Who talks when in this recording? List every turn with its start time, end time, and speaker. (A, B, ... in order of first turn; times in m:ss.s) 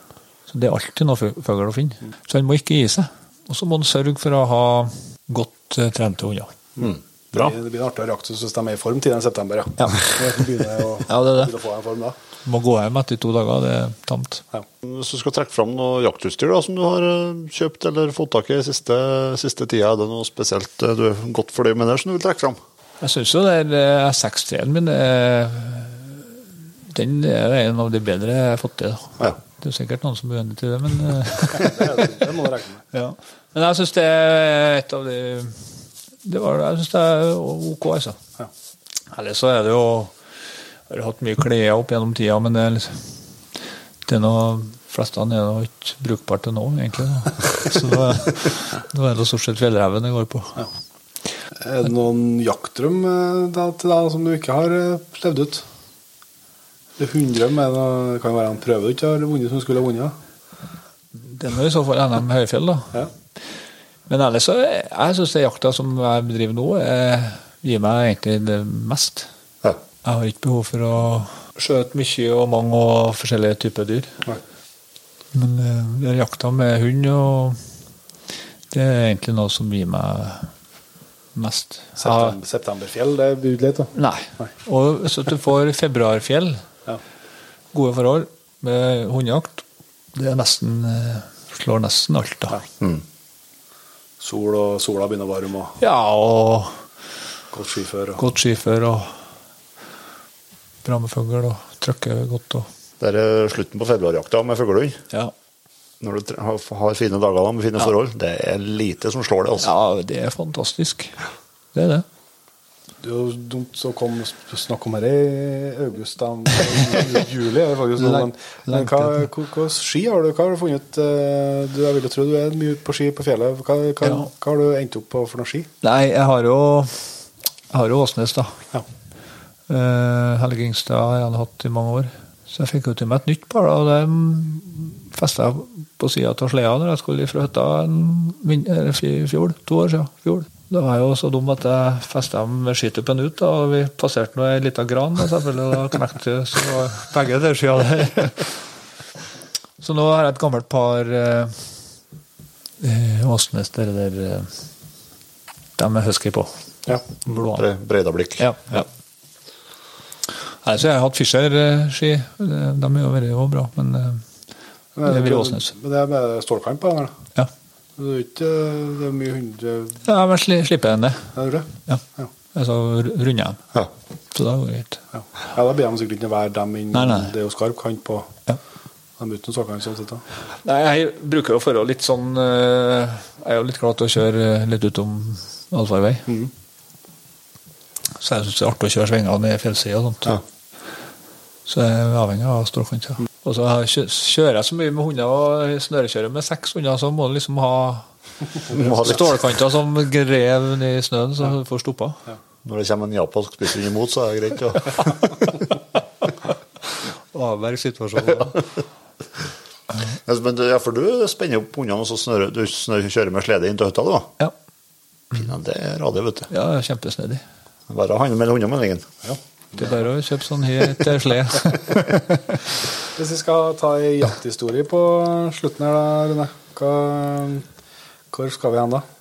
0:00.5-0:06.6 A
0:06.8-0:12.2 B
0:06.8-0:07.5 C
0:09.8-0:10.1 A
0:11.1-0:11.5 A
0:12.4-0:14.4 A
0:14.8-0:22.6 C
0:23.0-0:32.0 A
0:31.5-0:32.8 B
0:32.9-0:38.2 A
0:39.1-0:40.2 A
0:40.9-0:43.2 A
0:44.0-0:50.7 A
0:51.6-0:55.6 B
0:57.0-1:00.2 B
1:01.2-1:03.0 A
1:04.1-1:09.3 A
1:10.0-1:14.2 A
1:15.3-1:17.6 A
1:18.7-1:20.5 A
1:21.4-1:22.4 A
1:22.0-1:23.9 B
1:23.9-1:26.7 A
1:27.7-1:32.6 A
1:34.2-1:35.8 B
1:35.8-1:36.8 A
1:37.5-1:38.2 B
1:38.2-1:39.2 A
1:40.8-1:42.7 A
1:43.0-1:45.0 C
1:46.0-1:49.7 C
1:49.6-1:51.2 A
1:51.7-1:52.0 A
1:53.0-2:05.7 B
1:56.6-1:56.8 A
1:58.0-1:59.3 A
2:04.0-2:04.3 A
2:05.8-2:08.6 A
2:09.7-2:28.6 A
2:29.8-2:31.7 A
2:32.8-2:34.6 A
2:35.8-2:37.6 A
2:36.9-2:37.2 B
2:37.5-2:38.8 C
2:38.4-2:38.9 A
2:40.6-2:44.2 A
2:45.0-2:47.2 B
2:45.1-2:45.7 A
2:48.0-2:50.0 B
2:50.0-2:51.3 A
2:51.4-2:52.3 B
2:51.9-2:53.6 A
2:54.3-2:55.0 A
2:55.4-2:58.3 B
2:56.9-2:57.3 A
2:59.2-3:00.2 B
3:00.6-3:06.3 A
3:08.2-3:10.4 A
3:11.7-3:18.1 A
3:18.7-3:19.3 C
3:18.7-3:22.2 A
3:22.6-3:25.3 C
3:25.0-3:25.3 A
3:26.9-3:28.6 A
3:30.3-3:34.3 C
3:35.3-3:36.5 C
3:36.5-3:37.4 A
3:37.9-3:39.1 C
3:39.2-3:40.0 B
3:39.8-3:42.6 A
3:43.1-3:47.7 B
3:48.3-3:49.0 B